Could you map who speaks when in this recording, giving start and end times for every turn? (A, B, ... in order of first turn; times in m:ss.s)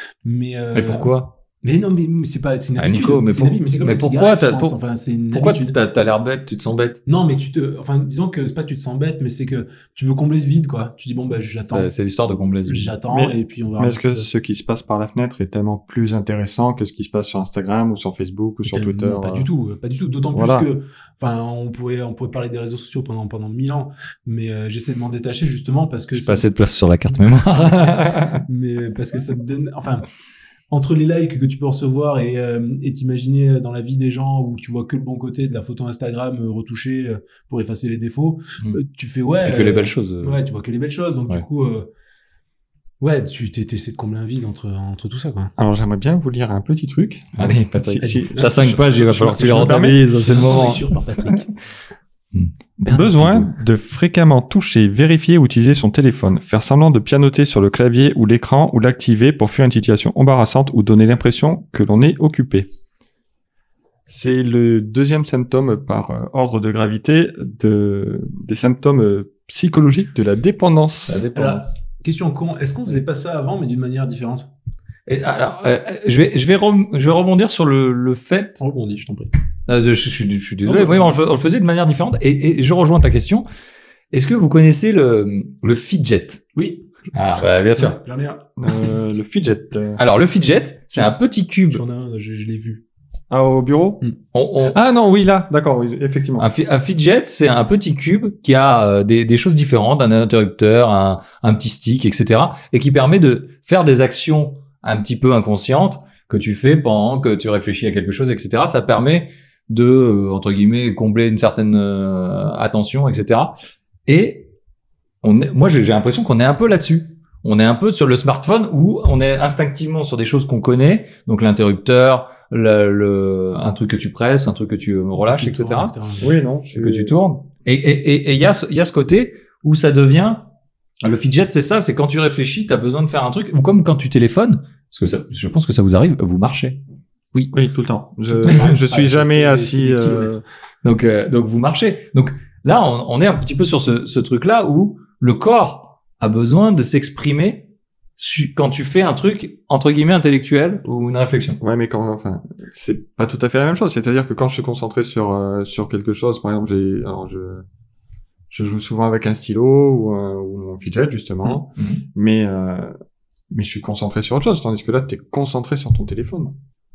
0:00.2-0:05.8 A
0:00.7-0:01.3 B
0:02.8-0:04.8 B
0:05.3-0:07.0 B
0:07.1-0:11.9 A
0:11.7-0:13.0 B
0:12.6-0:14.3 A
0:13.1-0:19.5 C
0:18.6-0:26.5 A
0:20.3-0:20.7 C
0:26.1-0:28.4 B
0:28.5-0:30.0 A
0:30.7-0:41.9 A
0:39.4-0:40.4 B
0:43.0-0:45.5 A
0:45.6-0:50.8 C
0:47.4-0:50.8 B
0:48.0-0:51.5 A
0:52.3-0:53.6 B
0:52.9-1:02.7 C
1:04.1-1:11.2 C
1:11.1-1:11.7 B
1:11.4-1:14.5 A
1:15.1-1:18.6 B
1:18.6-1:19.3 A
1:19.7-1:23.5 B
1:20.7-1:21.2 A
1:24.1-1:26.4 B
1:26.6-1:26.8 A
1:27.1-1:28.0 B
1:27.4-1:28.5 A
1:28.6-1:30.0 C
1:30.0-1:31.8 B
1:31.7-1:32.8 A
1:33.3-1:34.0 C
1:34.3-1:34.8 B
1:34.7-1:36.5 C
1:36.4-1:53.6 B
1:54.1-1:54.5 B
1:55.2-2:05.9 B
2:05.2-2:06.3 A
2:06.2-2:07.2 C
2:06.7-2:10.5 B
2:11.0-2:16.8 B
2:17.5-2:20.4 C
2:18.3-2:20.4 A
2:20.8-2:31.6 B
2:31.6-2:37.6 C
2:38.5-2:43.0 C
2:41.4-2:42.0 B
2:43.5-2:46.5 C